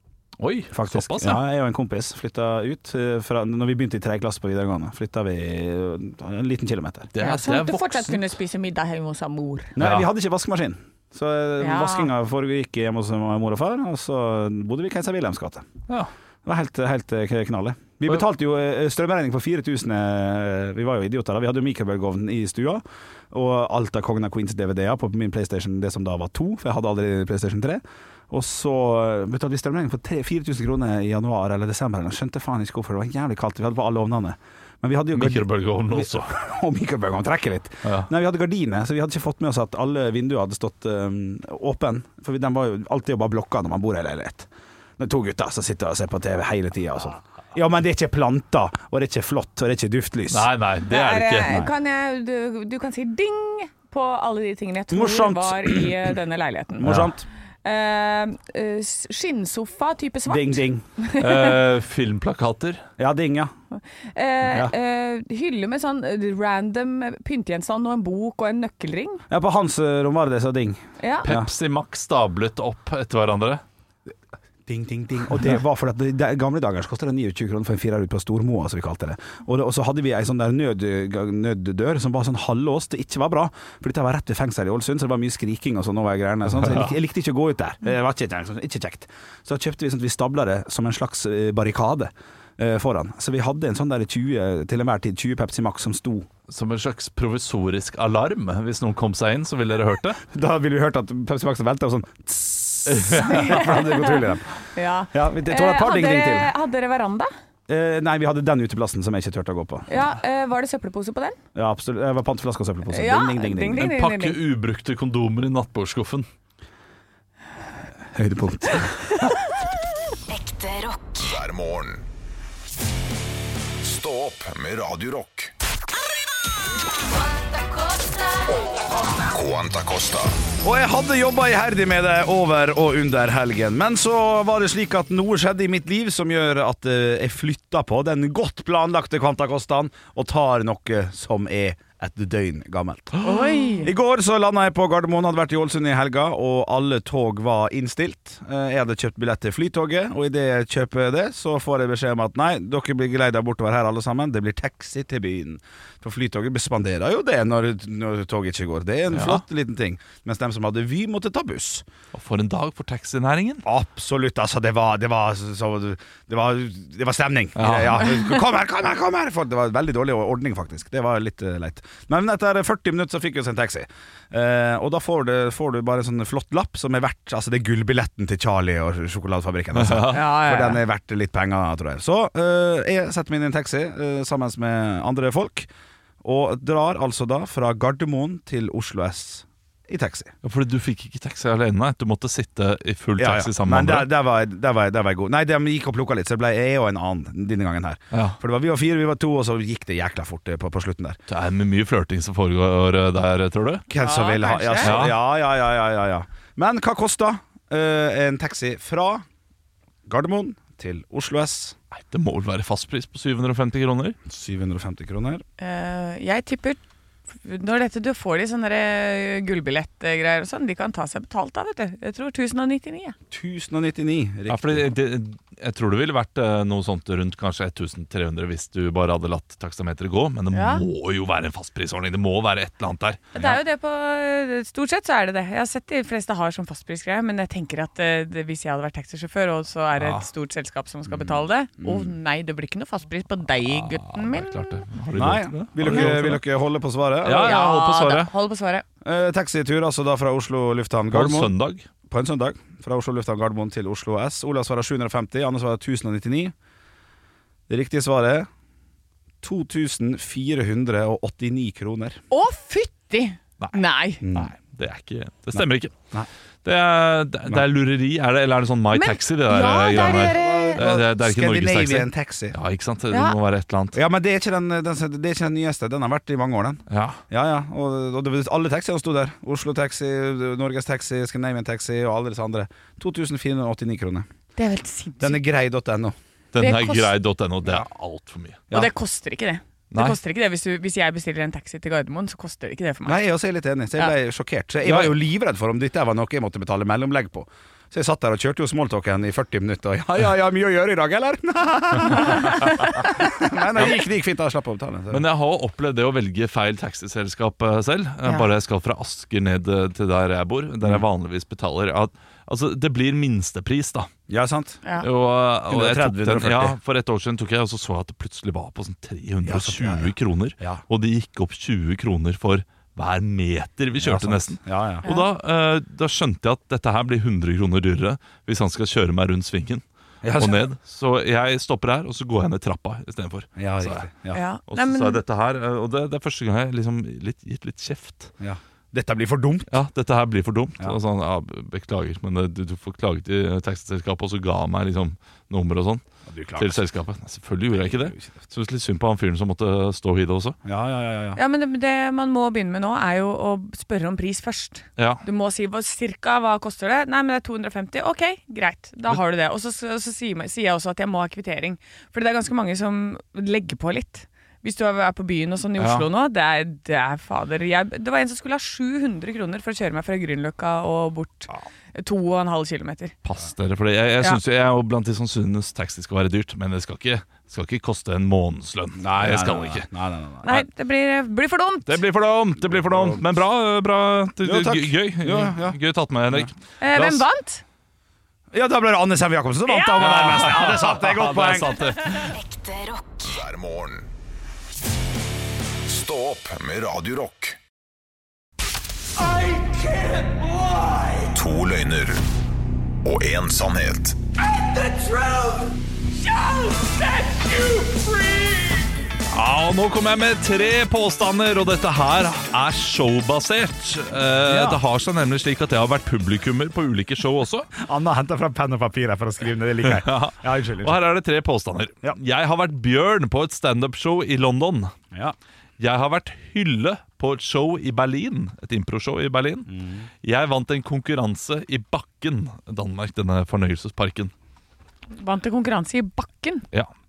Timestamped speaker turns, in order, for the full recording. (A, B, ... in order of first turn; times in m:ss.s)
0:00.4-0:01.4 A
0:00.7-0:07.1 B
0:07.1-0:08.3 A
0:07.2-0:09.8 C
0:09.8-0:15.7 B
0:09.8-0:10.1 A
0:11.6-0:12.1 C
0:16.4-0:44.5 B
0:35.1-0:36.4 A
0:37.8-0:38.1 A
0:45.0-0:50.5 B
0:50.3-0:51.6 A
0:50.9-0:56.9 C
0:54.9-0:56.0 B
0:56.8-0:57.2 B
0:56.8-0:57.1 A
0:57.6-1:01.6 C
1:00.3-1:00.8 B
1:01.2-1:02.8 A
1:03.0-1:03.5 B
1:03.7-1:09.2 C
1:04.5-1:04.7 B
1:09.3-1:11.5 B
1:11.0-1:11.3 C
1:11.2-1:13.6 A
1:14.7-1:36.3 B
1:26.6-1:26.9 A
1:36.5-1:40.2 A
1:40.3-1:44.6 B
1:42.9-1:43.6 A
1:43.3-1:44.2 C
1:44.8-1:47.3 C
1:45.1-1:46.5 B
1:47.7-1:49.9 B
1:49.9-1:51.4 C
1:51.6-1:53.9 B
1:52.9-1:54.4 C
1:53.8-1:56.3 A
1:58.1-1:59.0 B
2:00.3-2:01.3 D
2:01.2-2:02.0 E
2:03.8-2:05.5 E
2:07.8-2:08.1 D
2:09.2-2:10.3 E
2:10.6-2:41.9 B
2:23.2-2:23.9 C
2:39.1-2:39.4 A
2:42.1-2:43.6 A
2:43.6-3:05.7 B
2:47.6-2:48.2 A
2:59.8-3:00.2 A
3:00.1-3:00.8 C
3:06.2-3:10.3 B
3:10.4-3:14.1 A
3:13.2-3:21.2 B
3:18.1-3:18.4 A
3:21.3-3:23.9 A
3:23.9-3:29.2 B
3:24.0-3:25.0 C
3:24.8-3:25.2 A
3:30.1-3:31.8 B
3:31.9-3:34.2 A
3:34.3-3:35.4 B
3:35.6-3:36.8 C
3:37.4-3:43.2 C
3:43.3-3:44.9 B
3:44.5-3:53.4 A
3:50.5-3:50.8 C
3:53.3-4:04.9 C
4:00.0-4:00.3 A
4:01.8-4:02.1 B
4:03.7-4:06.4 A
4:05.1-4:07.6 B
4:07.2-4:08.3 A
4:07.3-4:08.8 C
4:09.0-4:11.5 B
4:11.1-4:11.9 A
4:12.1-4:16.5 B
4:17.7-4:18.5 B
4:19.4-4:22.2 B
4:22.3-4:24.2 C
4:24.2-4:24.5 B
4:24.3-4:26.0 A
4:25.5-4:26.3 B
4:26.6-4:34.0 A
4:28.9-4:30.8 C
4:30.0-4:32.6 B
4:33.1-4:33.4 C
4:33.9-4:44.3 B
4:36.9-4:37.2 A
4:44.6-4:45.4 C
4:45.2-4:46.2 B
4:46.5-4:48.6 A
4:46.6-4:47.1 C
4:48.7-4:53.2 C
4:49.9-4:50.2 A
4:53.0-5:05.2 B
4:54.8-4:55.1 A
5:05.1-5:14.1 A
5:14.3-5:14.8 B
5:15.0-5:29.8 A
5:15.7-5:16.8 B
5:19.4-5:20.8 B
5:24.0-5:25.1 B
5:30.2-5:30.7 B
5:30.4-5:34.1 A
5:33.6-5:34.4 B
5:34.3-5:35.2 C
5:34.7-5:38.3 A
5:38.4-5:39.7 B
5:39.7-5:46.0 A
5:46.3-5:46.8 B
5:46.6-5:50.6 A
5:47.8-5:48.4 B
5:50.6-5:51.4 B
5:51.4-6:13.1 C
5:55.0-5:55.2 A
6:05.8-6:06.1 A
6:13.2-6:19.9 A
6:19.0-6:20.5 B
6:20.4-6:22.0 C
6:21.9-6:27.2 A
6:22.7-6:23.2 B
6:24.4-6:25.8 B
6:26.8-6:27.6 C
6:28.5-6:31.8 B
6:29.7-6:30.3 C
6:30.0-6:32.4 A
6:32.3-6:33.4 D
6:33.2-6:34.1 E
6:35.9-6:37.6 E
6:41.3-6:42.2 E
6:43.0-6:44.2 E
6:44.6-6:45.6 A
6:47.2-6:48.1 A
6:49.3-6:57.7 A
6:54.4-6:54.8 B
6:57.8-7:01.0 B
6:59.8-7:04.9 A
7:05.8-7:09.7 A
7:09.7-7:10.1 B
7:10.2-7:14.3 A
7:15.1-7:16.7 C